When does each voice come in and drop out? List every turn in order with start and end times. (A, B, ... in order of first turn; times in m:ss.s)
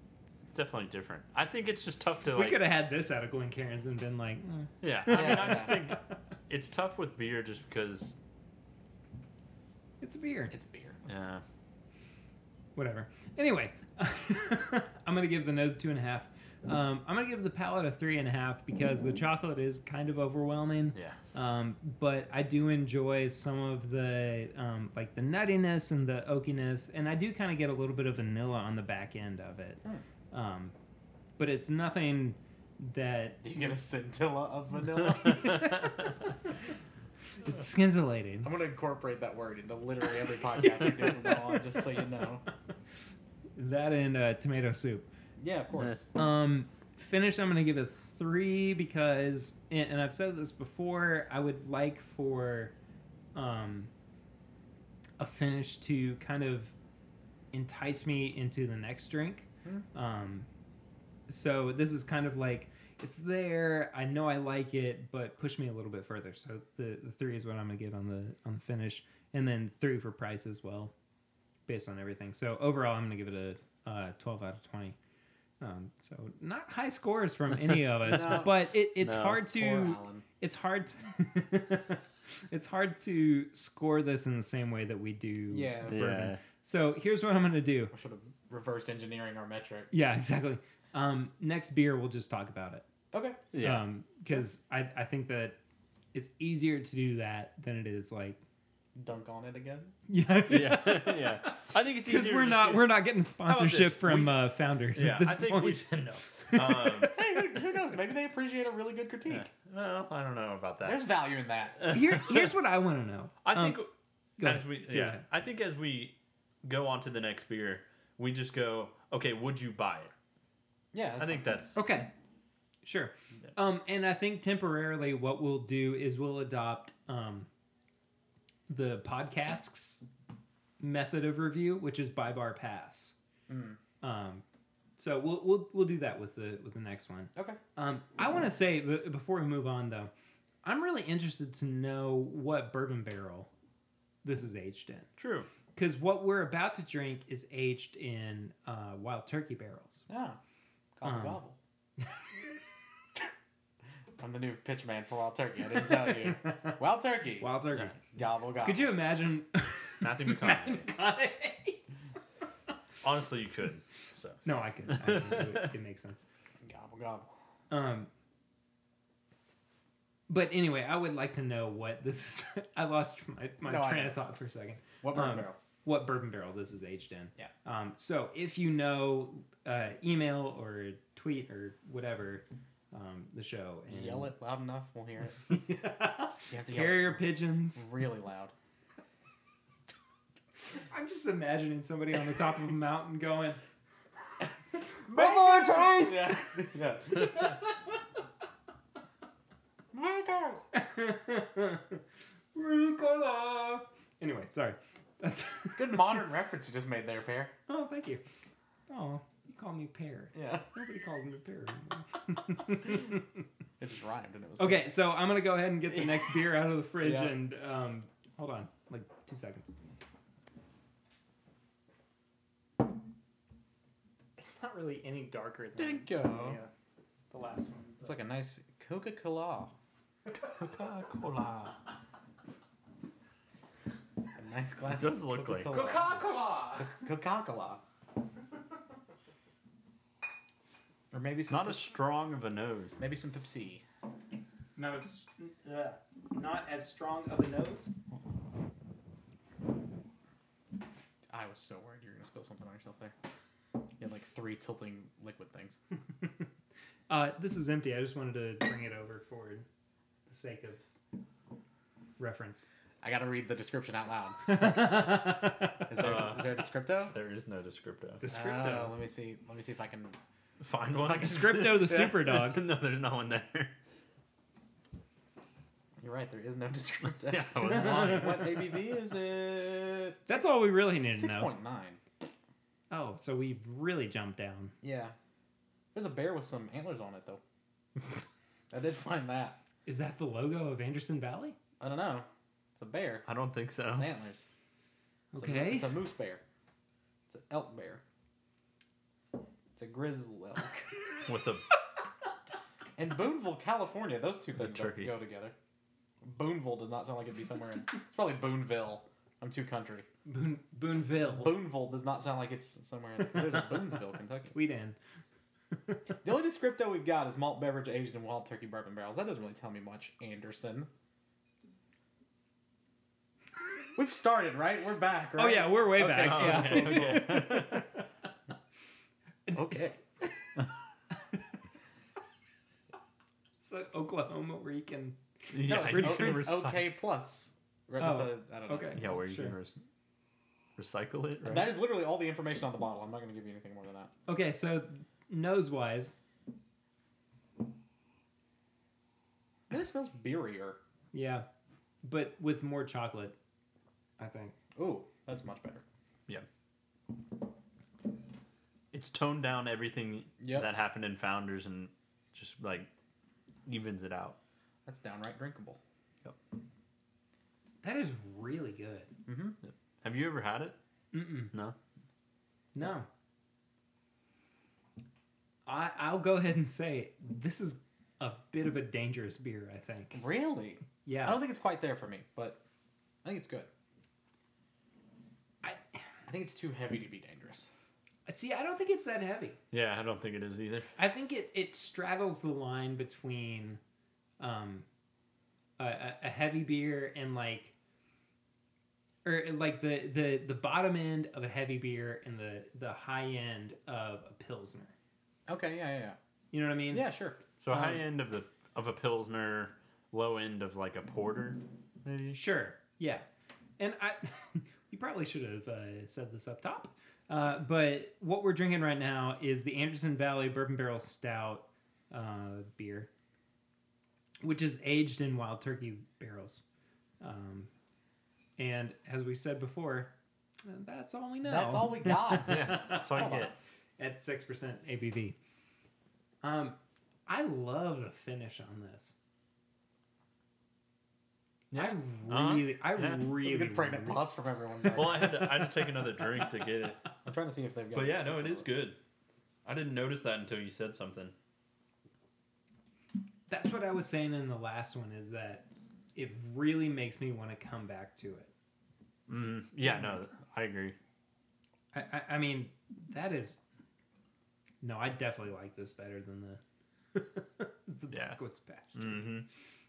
0:00.5-0:02.7 A
0:02.3-0:06.2 B
0:04.8-0:08.1 A
0:05.1-0:05.7 C
0:10.0-0:10.5 B
0:10.5-0:11.0 C
0:11.1-0:11.4 A
0:12.8-0:29.8 B
0:30.3-0:30.8 B
0:31.4-0:33.4 B
0:33.4-0:35.9 C
0:37.4-0:38.5 B
0:38.4-0:42.4 C
0:43.6-0:45.1 B
0:45.4-0:46.1 C
0:46.2-0:52.7 B
0:53.4-0:53.9 B
0:55.2-0:56.7 B
0:57.5-1:00.5 B
1:01.3-1:10.9 B
1:11.7-1:15.0 B
1:15.6-1:27.9 B
1:18.0-1:18.5 C
1:19.0-1:19.4 A
1:19.5-1:20.2 C
1:25.5-1:26.0 C
1:25.9-1:26.4 A
1:27.9-1:29.9 C
1:29.9-1:32.8 B
1:33.1-1:33.4 C
1:33.5-1:33.9 A
1:33.6-1:35.6 B
1:36.1-1:38.4 B
1:39.0-1:40.0 C
1:40.1-1:47.2 B
1:40.5-1:47.2 A
1:47.1-1:49.5 C
1:49.3-1:51.0 A
1:50.8-1:51.9 C
1:51.8-1:52.5 A
1:51.9-1:53.8 B
1:53.4-1:53.9 A
1:54.4-1:55.2 B
1:54.4-2:00.1 A
2:00.9-2:01.5 C
2:01.2-2:01.8 A
2:01.8-2:02.1 B
2:02.8-2:07.5 B
2:08.7-2:10.0 B
2:10.8-2:13.2 B
2:13.5-2:13.8 C
2:14.0-2:14.4 B
2:15.0-2:20.1 B
2:20.6-2:23.5 B
2:24.2-2:25.1 B
2:25.2-2:25.5 A
2:25.8-2:30.1 B
2:30.1-2:30.4 C
2:31.0-2:31.6 C
2:31.0-2:31.4 B
2:34.2-2:37.5 C
2:35.8-2:36.8 B
2:37.4-2:38.0 B
2:38.1-2:39.0 C
2:38.6-2:41.8 B
2:40.0-2:40.9 A
2:43.0-2:45.7 A
2:44.4-2:46.2 B
2:46.6-2:47.3 C
2:47.7-2:48.1 B
2:50.3-3:04.3 B
2:53.6-2:54.2 C
2:55.0-2:55.6 C
3:03.9-3:05.6 C
3:05.5-3:07.9 B
3:06.4-3:08.5 C
3:10.9-3:13.6 B
3:15.0-3:17.6 B
3:15.1-3:17.6 C
3:19.9-3:20.6 C
3:20.7-3:22.0 B
3:22.5-3:26.2 B
3:25.8-3:27.6 C
3:27.7-3:28.2 B
3:28.9-3:33.4 B
3:30.3-3:30.7 C
3:33.8-3:34.9 C
3:34.6-3:39.7 B
3:37.0-3:37.4 C
3:44.4-3:46.7 B
3:45.8-3:46.6 C
3:47.3-3:48.1 B
3:48.0-3:49.7 C
3:50.3-3:51.8 A
3:54.4-3:56.2 C
3:54.9-3:55.7 A
3:55.7-3:57.0 B
3:56.8-3:57.8 C
4:01.1-4:01.9 C
4:01.5-4:03.0 A
4:03.0-4:03.8 C
4:04.8-4:07.9 B
4:11.3-4:13.1 C
4:14.0-4:15.8 C
4:17.1-4:19.7 B
4:20.3-4:20.8 B
4:22.2-4:22.6 B
4:23.0-4:27.1 C
4:24.4-4:25.9 B
4:26.0-4:28.2 A
4:28.2-4:29.0 B
4:28.3-4:30.2 C
4:30.6-4:33.7 A
4:31.0-4:32.2 C
4:31.1-4:32.6 B
4:36.0-4:40.5 C
4:37.2-4:38.4 A
4:37.6-4:38.5 B
4:40.3-4:41.5 B
4:41.1-4:42.0 C
4:42.9-4:44.7 B
4:44.8-4:45.1 C
4:45.9-4:47.4 C
4:48.7-4:49.6 C
4:49.9-4:51.6 B
4:51.8-4:53.3 C
4:53.3-4:54.1 A
4:54.0-4:54.5 C
4:55.3-4:56.0 B
4:55.4-4:56.4 C
4:57.3-4:58.0 C
4:59.8-5:01.0 C
5:01.3-5:01.6 A
5:03.0-5:05.5 C
5:04.6-5:05.1 A
5:06.2-5:10.1 C
5:10.3-5:11.6 B
5:11.2-5:14.6 C
5:14.5-5:15.0 B
5:16.2-5:20.9 C
5:24.0-5:27.4 C
5:25.4-5:28.0 B
5:26.2-5:27.9 A
5:29.5-5:30.4 B
5:29.5-5:30.0 C
5:33.6-5:36.5 B
5:35.5-5:36.8 A
5:35.6-5:39.0 C
5:38.0-5:39.6 B
5:39.0-5:39.8 A
5:40.8-5:41.7 A
5:41.4-5:44.1 C
5:44.3-5:46.2 B
5:49.7-5:50.8 C
5:51.1-5:51.5 B
5:52.0-5:53.4 B
5:54.2-5:54.6 B
5:54.8-5:55.8 C
5:58.9-6:02.9 A
6:00.4-6:00.7 C
6:03.7-6:04.4 A
6:04.9-6:05.8 C
6:07.8-6:09.1 B
6:09.3-6:09.6 C
6:09.6-6:10.8 A
6:11.1-6:11.5 B
6:12.8-6:13.1 B
6:15.7-6:20.2 B
6:20.1-6:22.6 C
6:21.0-6:21.4 B
6:23.2-6:23.7 C
6:26.3-6:27.7 C
6:28.3-6:29.6 B
6:29.7-6:30.9 A
6:31.0-6:33.8 B
6:34.4-6:34.9 B
6:35.8-6:37.7 B
6:39.2-6:44.9 B
6:45.5-6:46.2 C
6:46.5-6:47.1 B
6:46.9-6:47.4 C
6:47.6-6:52.4 A
6:47.7-6:48.0 B
6:52.3-6:53.2 B
6:53.8-7:03.1 B
7:04.4-7:06.6 B
7:07.2-7:07.7 B
7:08.6-7:10.1 B
7:10.6-7:13.3 B
7:11.4-7:13.5 C
7:12.4-7:13.5 A
7:14.0-7:15.4 B
7:16.4-7:19.1 B
7:21.7-7:23.2 A
7:21.7-7:24.2 B
7:23.4-7:25.6 C
7:24.9-7:27.0 A
7:27.2-7:28.7 C
7:27.9-7:29.0 A
7:29.6-7:31.3 A
7:33.5-7:38.5 B
7:39.3-7:41.0 A
7:41.9-7:43.6 B
7:44.8-7:46.6 B
7:47.1-7:49.3 B
7:48.1-7:48.4 A
7:48.9-7:49.5 A